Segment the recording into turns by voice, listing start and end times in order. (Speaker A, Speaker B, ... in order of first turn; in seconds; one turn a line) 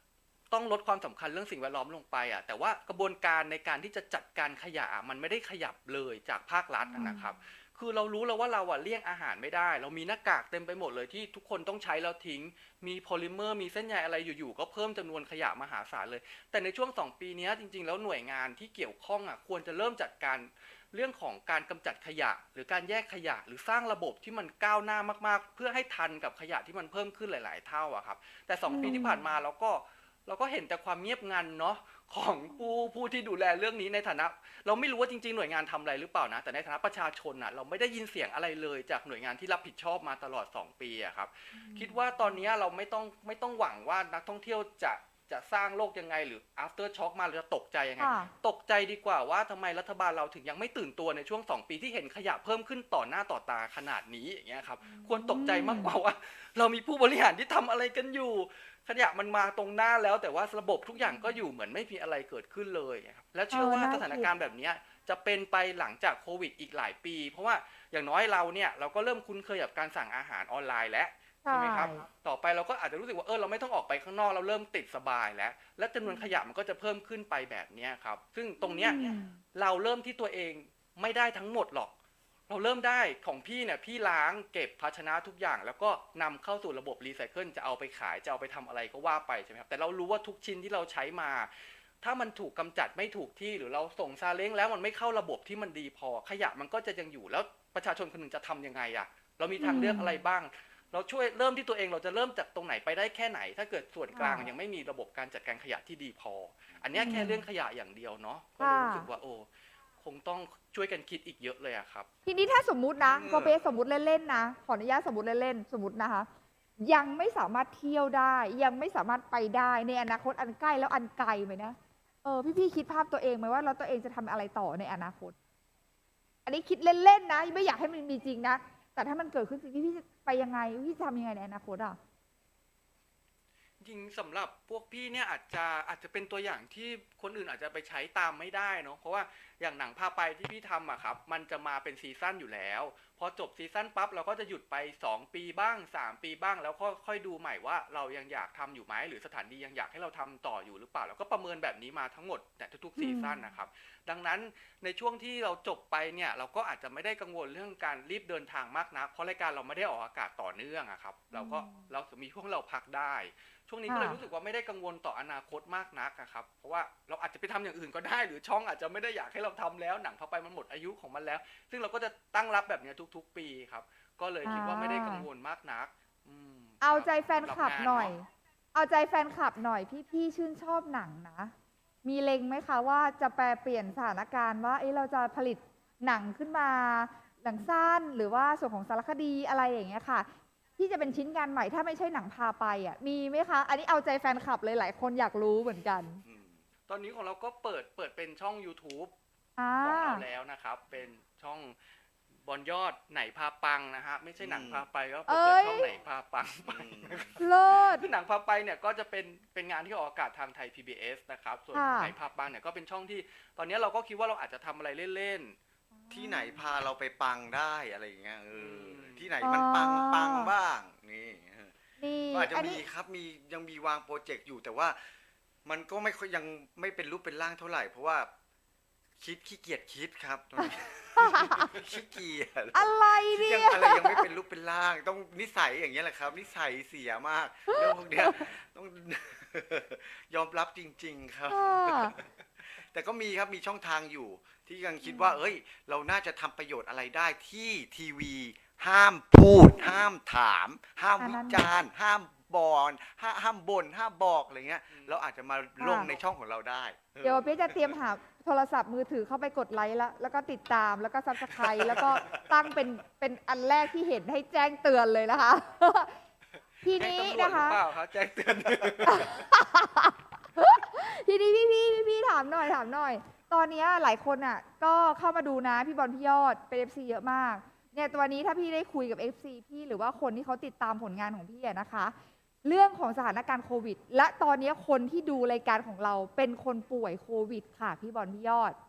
Speaker A: 0.5-81.9
Speaker B: 6.9-7.3
Speaker B: 28.7-29.2
Speaker B: 41.5-42.3
Speaker B: 48.0-48.3
Speaker B: 54.9-55.9
Speaker B: 61.0-61.4
Speaker B: 63.5-64.3
Speaker B: 71.5-72.0
Speaker B: 76.0-76.3
Speaker B: 78.6-79.4
Speaker A: 82.5-109.5
Speaker B: 99.6-100.2
Speaker B: 104.1-104.5
Speaker B: 107.0-107.4
Speaker B: 108.6-109.1
Speaker A: 110.0-112.1
Speaker B: 112.3-125.4
Speaker C: 113.0-113.6
Speaker B: 126.5-132.0
Speaker A: 133.8-178.1
Speaker B: 153.0-153.5
Speaker B: 161.3-161.9
Speaker B: 163.9-164.2
Speaker B: 174.4-175.2
Speaker B: 176.8-181.5
Speaker B: 182.0-196.2
Speaker C: 196.2-196.6
Speaker A: 196.9-199.1
Speaker B: 199.6-200.2
Speaker A: 199.8-201.8
Speaker A: 202.4-215.6
Speaker C: 204.4-204.8
Speaker B: 205.3-205.9
Speaker C: 206.7-207.3
Speaker B: 207.4-208.1
Speaker B: 211.8-212.1
Speaker B: 216.0-216.6
Speaker C: 216.1-221.7
Speaker A: 218.6-219.3
Speaker B: 219.4-220.5
Speaker B: 222.0-222.8
Speaker C: 222.3-225.0
Speaker C: 225.7-228.3
Speaker C: 229.2-258.0
Speaker B: 230.6-231.7
Speaker B: 232.7-234.3
Speaker B: 237.7-238.5
Speaker B: 241.5-242.2
Speaker B: 245.0-245.4
Speaker B: 251.2-251.7
Speaker A: 254.9-255.2
Speaker B: 255.8-256.1
Speaker B: 257.2-266.2
Speaker C: 261.7-262.4
Speaker B: 266.8-267.8
Speaker A: 266.9-269.3
Speaker B: 269.1-288.8